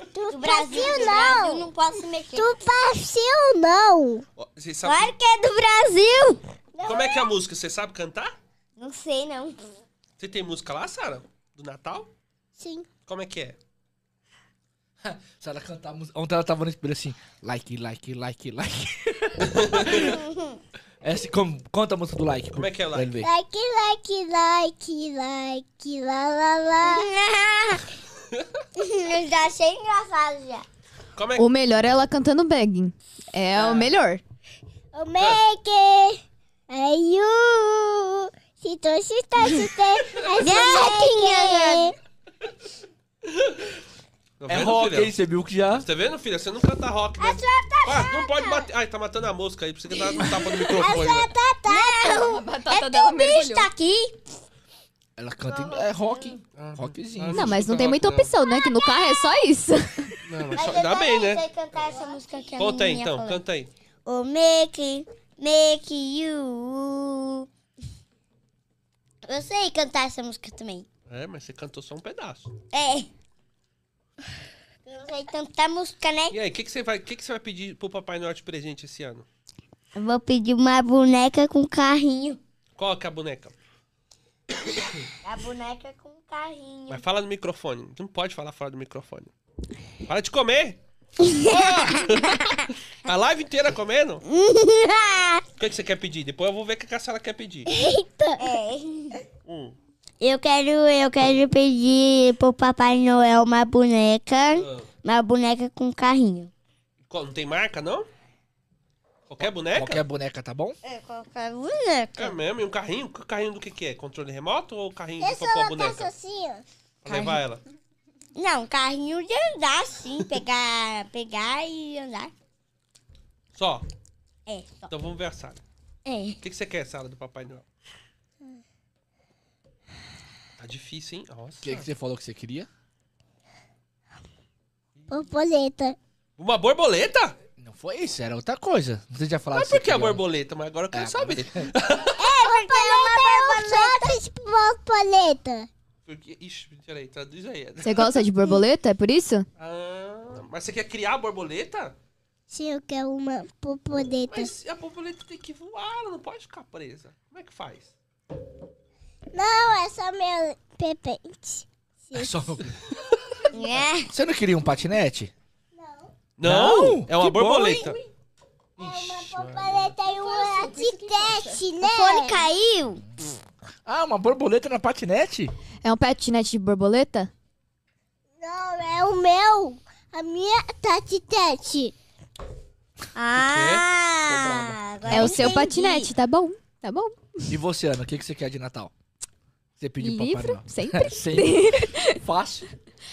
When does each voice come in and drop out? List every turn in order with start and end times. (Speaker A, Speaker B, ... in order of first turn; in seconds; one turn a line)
Speaker A: 0.1-1.7
Speaker B: 0.3-2.6
Speaker A: 2.4-4.2
Speaker C: 4.4-5.1
Speaker B: 4.8-7.1
Speaker C: 6.8-8.3
Speaker B: 8.8-9.6
Speaker C: 10.2-12.1
Speaker A: 12.6-12.9
Speaker C: 13.1-13.6
Speaker D: 15.0-20.2
Speaker C: 19.5-20.0
Speaker B: 20.0-20.6
Speaker D: 21.0-23.3
Speaker C: 22.6-23.1
Speaker A: 23.2-27.1
Speaker B: 26.8-27.9
Speaker B: 28.8-30.6
Speaker C: 31.1-31.5
Speaker E: 31.4-34.2
Speaker C: 33.5-33.9
Speaker A: 34.9-42.0
Speaker B: 40.4-41.9
Speaker C: 44.4-45.1
Speaker D: 44.5-45.9
Speaker C: 45.8-51.3
Speaker A: 47.2-48.7
Speaker A: 50.1-52.4
Speaker B: 51.7-54.2
Speaker E: 52.1-53.7
Speaker D: 55.2-57.6
Speaker B: 55.5-56.3
Speaker C: 56.5-58.3
Speaker E: 57.3-60.2
Speaker C: 60.2-61.4
Speaker B: 60.5-63.4
Speaker C: 62.6-63.7
Speaker B: 64.1-67.5
Speaker B: 69.2-70.9
Speaker C: 71.1-72.5
Speaker B: 72.7-73.1
Speaker B: 74.9-76.4
Speaker C: 76.3-79.3
Speaker B: 80.0-82.4
Speaker C: 82.8-83.5
Speaker B: 85.2-87.0
Speaker C: 86.9-89.3
Speaker C: 90.1-90.8
Speaker B: 91.2-92.7
Speaker C: 91.4-92.4
Speaker C: 93.0-94.2
Speaker B: 94.3-95.4
Speaker C: 95.6-97.7
Speaker A: 97.7-98.6
Speaker B: 98.4-99.2
Speaker C: 99.5-99.8
Speaker B: 100.2-106.5
Speaker C: 104.5-104.9
Speaker C: 107.1-108.1
Speaker C: 109.3-110.0
Speaker D: 109.7-110.8
Speaker B: 110.8-112.4
Speaker C: 112.2-116.1
Speaker A: 115.2-116.7
Speaker C: 117.0-117.6
Speaker B: 117.1-117.4
Speaker B: 118.3-122.3
Speaker C: 123.5-123.9
Speaker B: 124.5-124.9
Speaker C: 124.9-125.6
Speaker B: 126.1-126.4
Speaker C: 126.4-127.7
Speaker C: 130.6-131.9
Speaker D: 131.6-132.7
Speaker A: 135.1-136.0
Speaker C: 136.4-137.4
Speaker D: 137.6-140.2
Speaker C: 139.5-142.2
Speaker D: 140.9-141.7
Speaker B: 142.2-144.2
Speaker A: 142.2-145.7
Speaker C: 146.1-148.2
Speaker E: 147.8-149.5
Speaker C: 149.6-152.0
Speaker A: 152.5-154.5
Speaker C: 154.3-157.9
Speaker A: 159.3-162.6
Speaker D: 162.1-162.8
Speaker B: 163.5-164.1
Speaker D: 164.1-165.3
Speaker A: 165.7-166.1
Speaker C: 166.4-168.0
Speaker D: 166.4-168.0
Speaker A: 168.8-172.4
Speaker C: 168.8-169.9
Speaker B: 170.4-171.0
Speaker B: 171.8-173.0
Speaker D: 173.9-175.5
Speaker E: 175.8-177.3
Speaker A: 178.4-181.9
Speaker B: 183.2-186.1
Speaker C: 183.3-183.8
Speaker D: 184.3-185.3
Speaker E: 185.1-187.6
Speaker D: 187.5-188.9
Speaker D: 189.8-192.7
Speaker E: 190.0-192.2